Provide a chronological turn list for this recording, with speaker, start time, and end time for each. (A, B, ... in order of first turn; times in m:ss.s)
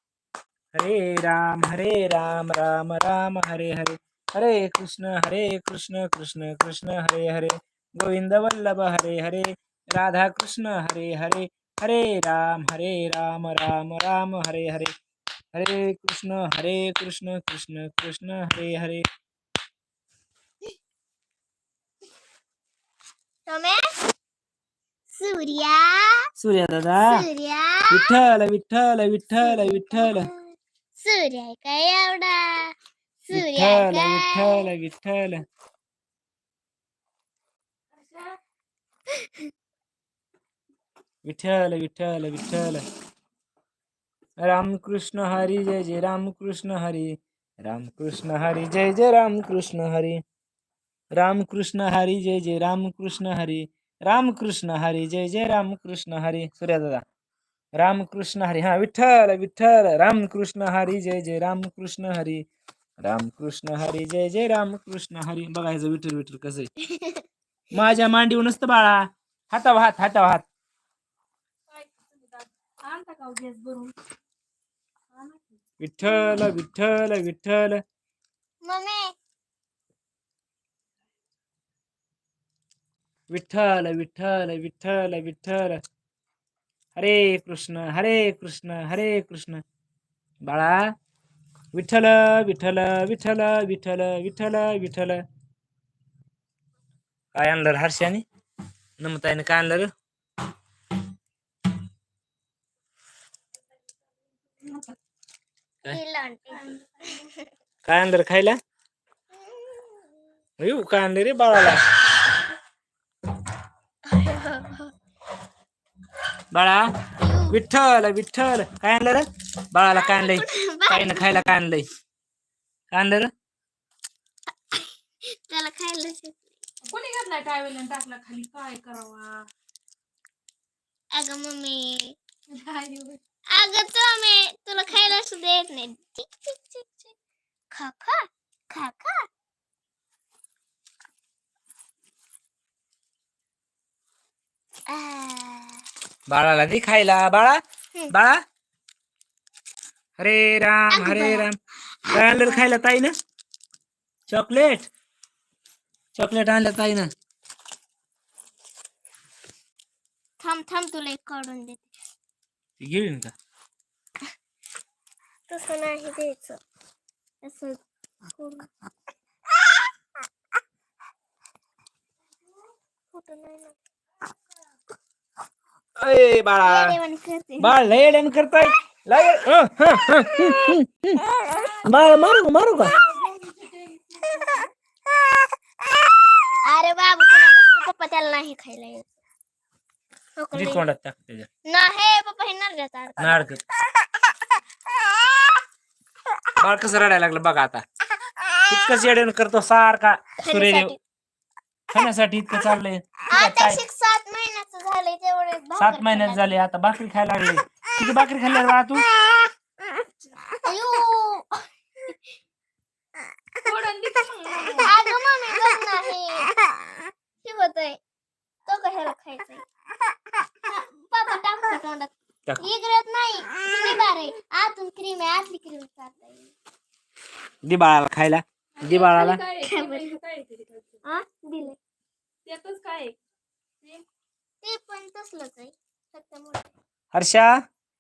0:00.7-0:14.9 A
0:15.5-0:19.0 A
0:23.4-0:23.9 B
0:25.1-0:26.3 B
0:26.4-0:27.2 A
0:27.0-0:28.1 B
0:27.9-0:30.3 A
0:29.4-0:34.7 B
0:33.3-0:35.4 A
0:37.9-0:38.4 C
0:41.2-0:42.8 A
0:44.4-0:50.2 A
0:51.1-0:57.0 A
0:57.7-1:02.5 A
1:03.0-1:06.7 A
1:06.8-1:07.2 B
1:07.7-1:10.4 A
1:11.7-1:13.9 C
1:15.1-1:15.4 C
1:15.8-1:17.8 A
1:16.1-1:16.5 B
1:18.6-1:19.1 B
1:23.3-1:25.8 A
1:27.0-1:29.6 A
1:30.4-1:30.9 A
1:31.7-1:35.2 A
1:37.3-1:38.2 A
1:39.0-1:39.9 A
1:44.6-1:44.9 C
1:45.9-1:47.4 B
1:47.8-1:48.6 A
1:49.3-1:50.0 B
1:50.6-1:51.8 A
1:54.0-1:54.9 B
1:56.5-1:56.9 A
1:57.2-1:57.6 B
1:57.5-2:01.8 A
1:59.9-2:01.5 B
2:02.9-2:03.3 A
2:04.7-2:06.5 B
2:06.8-2:09.4 C
2:11.1-2:12.2 B
2:12.5-2:13.2 C
2:13.5-2:17.1 B
2:17.7-2:19.3 B
2:24.9-2:25.8 B
2:26.3-2:28.4 A
2:30.2-2:31.6 A
2:30.9-2:31.5 B
2:32.1-2:32.7 B
2:32.1-2:33.1 A
2:34.3-2:34.9 A
2:36.1-2:37.1 A
2:40.4-2:41.9 B
2:42.8-2:43.3 A
2:45.5-2:46.6 B
2:47.4-2:48.7 B
2:53.1-2:53.7 B
2:56.0-2:57.0 A
2:56.6-2:57.8 B
2:57.6-3:01.2 A
3:00.4-3:00.7 B
3:01.3-3:01.7 B
3:01.8-3:02.9 A
3:02.9-3:04.7 C
3:06.6-3:09.1 B
3:10.4-3:10.9 B
3:10.5-3:11.5 A
3:11.6-3:13.4 B
3:13.2-3:13.6 A
3:16.6-3:17.8 A
3:18.2-3:18.8 B
3:18.7-3:20.9 A
3:20.4-3:21.0 B
3:21.9-3:23.8 A
3:23.3-3:26.5 B
3:25.8-3:29.0 A
3:30.6-3:32.2 B
3:33.6-3:34.9 C
3:34.8-3:36.6 B
3:37.4-3:38.0 B
3:38.6-3:39.6 B
3:40.7-3:46.5 B
3:47.6-3:49.4 A
3:48.8-3:51.0 C
3:49.6-3:50.2 B
3:51.0-3:51.8 B
3:52.4-3:53.1 C
3:54.6-3:56.7 B
3:57.1-3:57.6 A